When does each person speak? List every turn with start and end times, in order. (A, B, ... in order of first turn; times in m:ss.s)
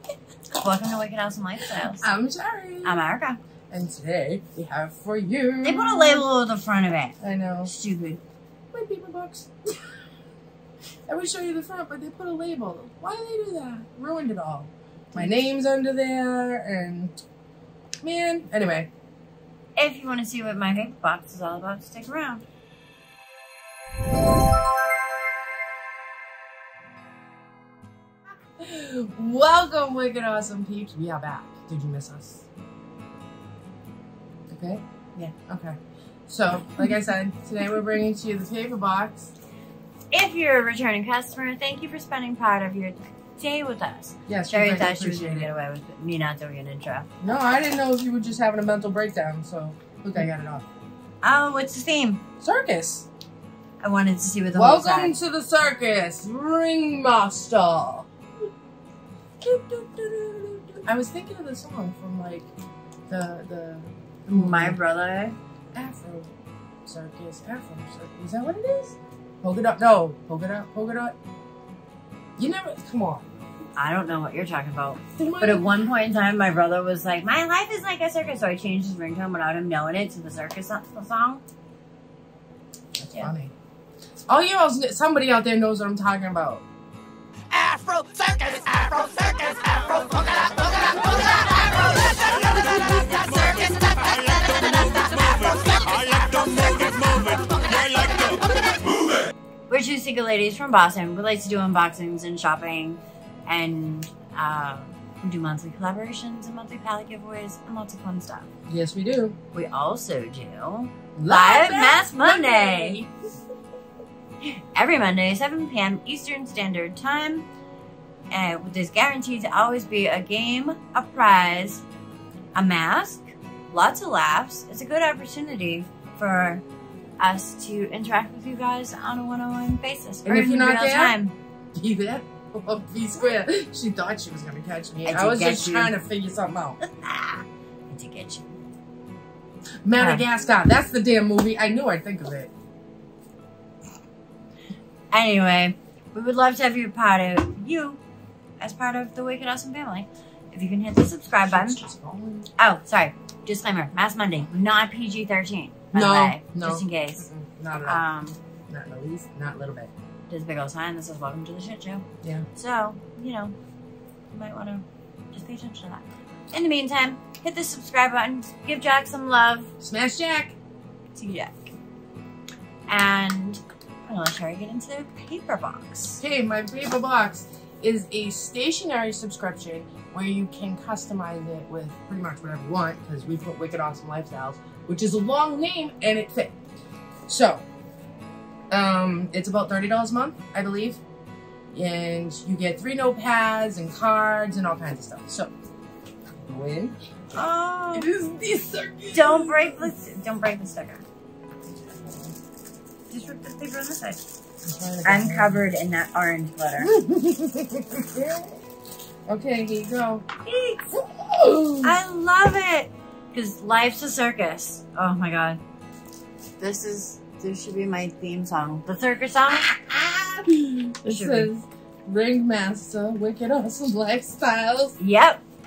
0:00.6-0:02.1 A
0:01.7-0:03.0 B
0:02.8-0:03.4 A
0:03.7-0:06.3 B
0:05.6-0:08.2 A
0:07.2-0:07.7 B
0:08.7-0:09.8 B
0:11.1-0:17.2 B
0:18.0-0:18.9 B
0:19.8-0:22.4 A
0:28.6-0:32.5 B
0:34.5-0:34.8 B
0:35.3-0:39.3 B
0:40.1-0:47.1 A
0:44.3-0:45.5 B
0:47.2-0:50.7 B
0:51.2-0:52.2 A
0:52.4-0:53.1 B
0:53.8-0:55.2 A
0:54.5-0:58.5 B
0:59.4-1:02.5 B
1:03.1-1:04.8 B
1:04.3-1:05.4 A
1:05.7-1:06.3 B
1:06.8-1:11.2 B
1:12.4-1:13.3 B
1:13.8-1:21.4 A
1:15.2-1:15.8 B
1:23.0-1:23.5 B
1:24.3-1:26.6 B
1:27.5-1:38.4 C
1:39.7-1:48.5 A
1:48.7-1:49.4 B
1:49.5-1:53.1 A
1:51.2-1:53.1 B
1:54.4-1:57.5 A
1:58.3-2:01.8 A
2:02.5-2:06.6 A
2:07.2-2:11.3 A
2:10.2-2:11.2 B
2:11.7-2:16.8 B
2:15.0-2:16.0 A
2:16.8-2:18.6 A
2:19.8-2:22.5 B
2:20.0-2:20.2 A
2:25.1-2:28.0 A
2:28.6-2:31.8 A
2:31.4-2:32.5 B
2:32.6-2:37.3 A
2:35.9-2:38.0 B
2:37.8-2:38.4 A
2:38.7-2:39.9 B
2:40.3-2:43.6 A
2:42.2-2:42.5 B
2:44.3-2:49.7 A
2:49.8-2:50.6 B
2:51.2-2:51.6 A
2:52.9-2:56.2 A
2:56.2-3:06.5 B
3:07.3-3:07.6 B
3:08.7-3:11.0 B
3:11.7-3:15.5 B
3:16.4-3:17.0 B
3:17.3-3:18.1 A
3:17.9-3:19.9 B
3:19.1-3:21.0 A
3:21.8-3:22.4 B
3:23.1-3:24.2 A
3:24.6-3:25.6 B
3:25.0-3:26.9 A
3:26.8-3:28.6 B
3:29.3-3:30.3 B
3:30.4-3:31.0 A
3:31.0-3:32.0 B
3:31.8-3:35.6 A
3:36.6-3:39.7 A
3:39.5-3:45.0 B
3:41.1-3:41.5 A
3:45.0-3:45.4 A